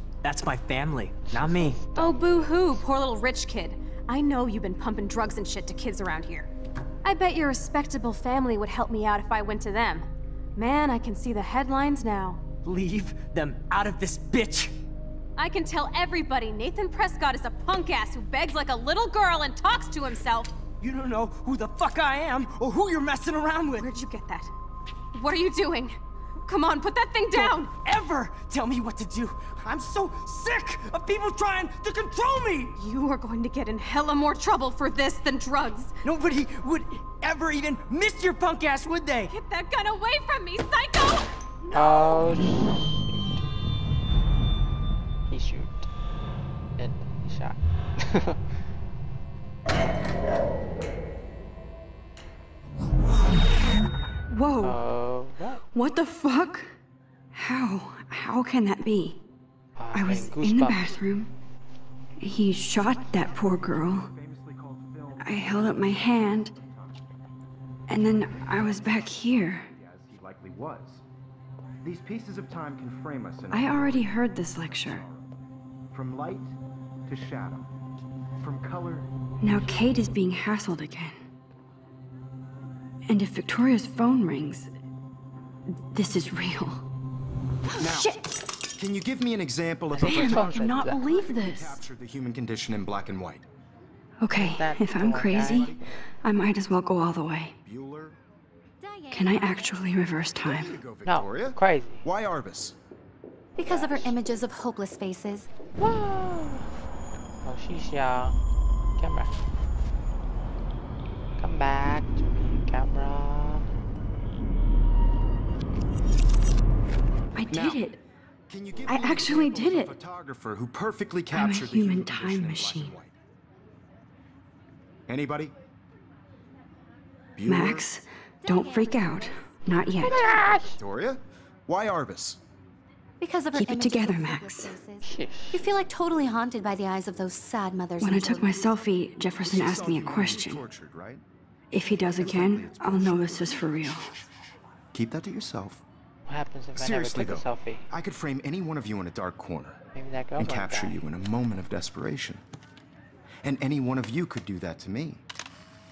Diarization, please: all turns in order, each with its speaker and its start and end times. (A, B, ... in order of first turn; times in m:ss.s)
0:00.2-0:01.9 A
0:01.3-0:02.8 B
0:01.9-0:06.5 C
0:07.0-0:12.5 C
0:12.6-0:14.7 A
0:15.4-0:20.6 C
0:20.7-0:23.9 A
0:23.7-0:24.5 C
0:25.1-0:27.8 C
0:27.3-0:32.7 A
0:32.7-0:35.9 C
0:36.0-0:39.3 A
0:39.3-0:41.3 C
0:41.7-0:43.4 B
0:45.3-0:45.9 B
0:46.8-0:48.4 B
0:54.3-0:54.8 D
0:54.6-0:55.6 B
0:55.7-0:56.7 D
0:57.3-0:59.2 D
0:59.8-1:00.9 B
0:59.9-1:01.3 D
1:02.2-1:04.1 D
1:02.7-1:07.1 E
1:05.2-1:06.5 D
1:07.9-1:09.7 D
1:08.4-1:11.0 E
1:11.8-1:15.3 E
1:13.5-1:15.0 D
1:15.9-1:16.5 E
1:17.0-1:17.7 E
1:18.4-1:19.9 E
1:19.4-1:21.2 D
1:23.1-1:24.7 D
1:25.9-1:26.8 D
1:27.7-1:28.4 D
1:27.8-1:28.1 E
1:28.7-1:33.4 E
1:29.9-1:31.0 B
1:30.0-1:31.8 D
1:34.2-1:37.6 D
1:34.3-1:35.8 B
1:35.4-1:35.8 E
1:37.6-1:38.2 E
1:38.8-1:39.8 F
1:39.1-1:40.8 D
1:40.4-1:42.8 E
1:41.0-1:42.0 B
1:43.6-1:45.5 F
1:43.6-1:44.1 B
1:45.8-1:46.7 B
1:47.4-1:48.4 B
1:49.0-1:49.4 B
1:51.4-1:53.6 B
1:57.3-1:58.0 D
1:57.5-1:57.9 E
1:58.5-2:03.1 E
1:58.9-1:59.9 D
2:01.3-2:02.9 D
2:05.1-2:05.5 E
2:07.4-2:07.9 E
2:07.5-2:10.2 D
2:08.4-2:10.4 F
2:10.0-2:10.8 B
2:10.1-2:12.4 E
2:13.2-2:18.7 F
2:13.5-2:14.8 D
2:15.0-2:15.7 B
2:18.0-2:20.6 D
2:19.4-2:21.2 E
2:21.7-2:24.1 D
2:22.1-2:24.3 E
2:24.9-2:25.8 E
2:26.3-2:27.8 B
2:26.7-2:29.8 E
2:29.9-2:31.0 B
2:30.4-2:32.4 E
2:33.4-2:35.2 E